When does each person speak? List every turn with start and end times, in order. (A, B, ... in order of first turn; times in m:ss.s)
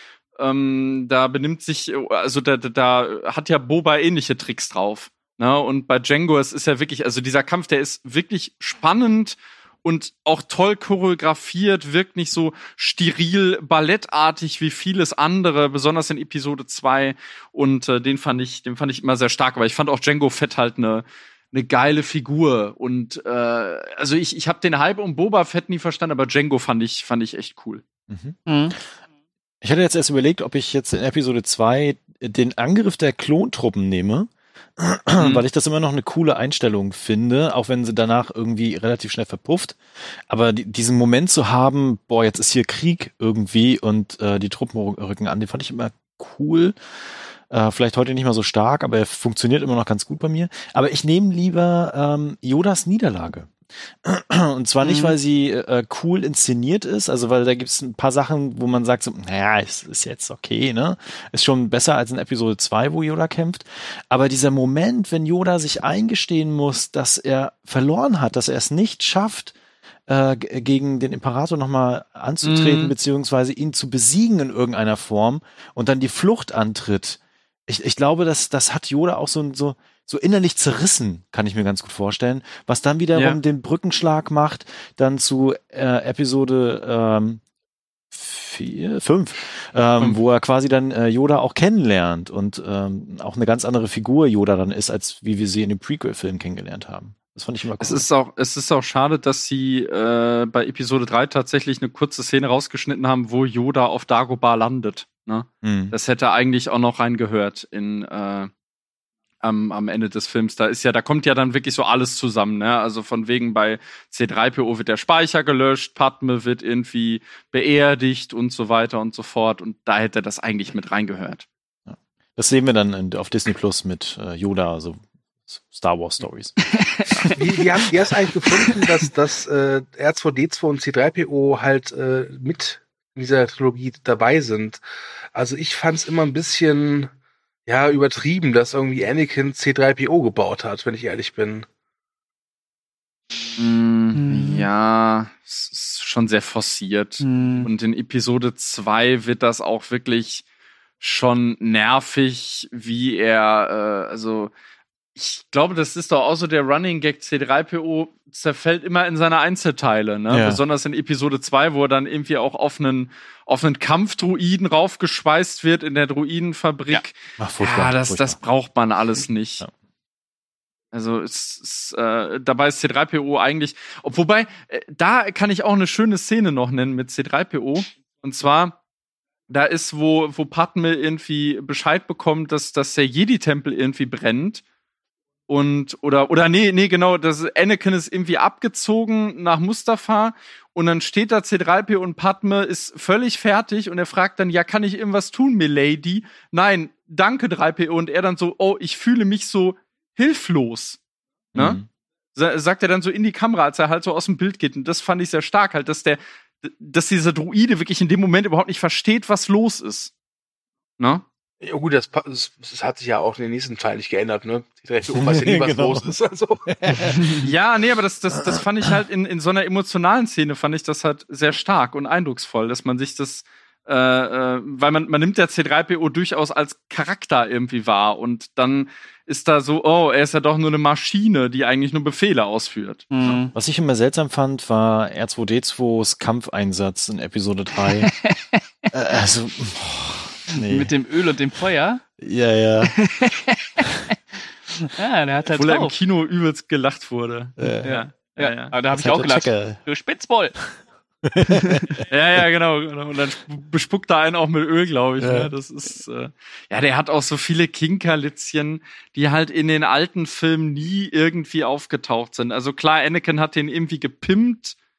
0:00.4-0:27.8 A
0:28.1-0:28.8 B
0:28.5-0:28.8 C
0:29.6-0:46.8 B
0:35.2-0:35.4 A
0:47.5-1:09.6 B
0:54.8-0:55.2 C
1:10.1-1:27.4 B
1:12.4-1:12.9 A
1:23.1-1:23.4 A
1:28.1-1:38.1 B
1:37.8-1:48.5 A
1:45.6-1:46.0 B
1:49.4-2:01.5 A
2:01.9-2:06.6 B
2:06.7-2:07.4 C
2:07.4-2:14.8 D
2:15.3-2:17.1 D
2:17.7-2:21.7 D
2:23.6-2:30.4 A
2:24.2-2:24.7 C
2:27.2-2:27.7 C
2:31.0-2:34.5 A
2:35.2-2:49.6 A
2:40.3-2:40.6 B
2:47.4-2:48.4 B
2:50.9-2:58.8 A
2:59.5-3:04.6 A
3:05.5-3:21.0 A
3:21.6-3:21.9 B
3:22.4-3:30.1 A
3:31.0-3:31.2 A
3:31.6-3:36.7 D
3:35.2-3:36.1 B
3:36.7-3:37.5 B
3:37.4-3:53.1 A
3:53.1-3:53.5 C
3:53.5-3:58.1 B
3:58.1-3:58.6 C
3:58.9-4:00.9 B
4:00.5-4:02.0 C
4:02.2-4:03.0 B
4:02.8-4:03.7 C
4:04.8-4:06.0 C
4:05.6-4:08.7 A
4:07.6-4:07.9 B
4:07.8-4:10.6 C
4:08.9-4:09.8 B
4:11.2-4:12.0 B
4:11.4-4:12.0 C
4:12.1-4:24.8 A
4:15.2-4:15.5 B